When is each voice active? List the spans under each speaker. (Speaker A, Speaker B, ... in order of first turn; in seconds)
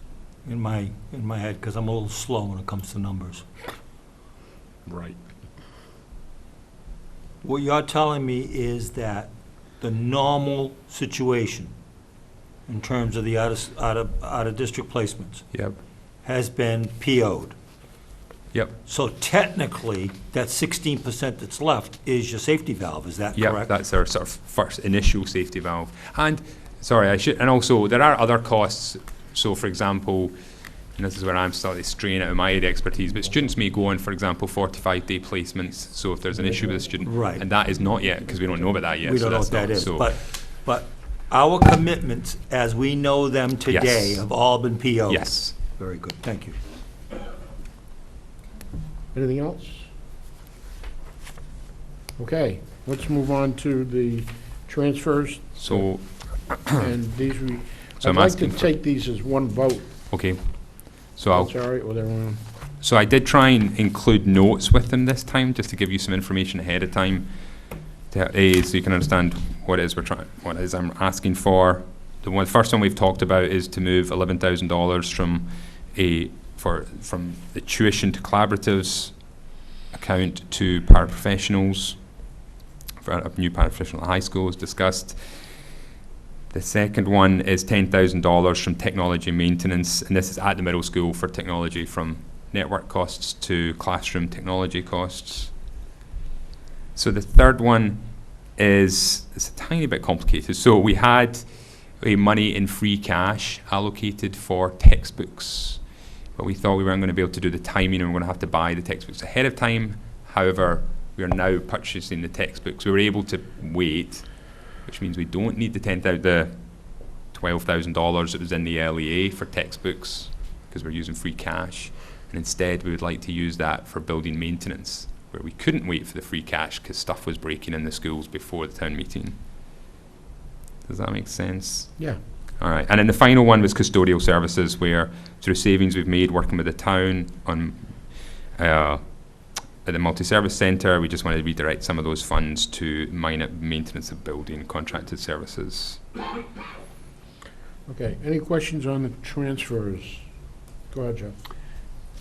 Speaker A: 0.4-3.5, 7.4-11.7, 12.7-15.4, 16.2-17.6, 18.8-23.7, 37.0-37.5, 39.0-46.5
Speaker B: 4.8-5.2, 49.1-49.8, 52.2-56.0, 56.6-59.9, 61.3-62.4, 147.9-150.3, 150.8-151.3
Speaker C: 23.3-30.4, 30.9-40.1, 43.7-44.2, 45.1-45.5, 55.6-56.8, 58.0-58.6, 60.1-61.5, 62.8-67.3, 68.1-82.1, 83.0-85.2, 86.5-95.6, 96.9-129.4, 130.8-132.0, 132.6-146.0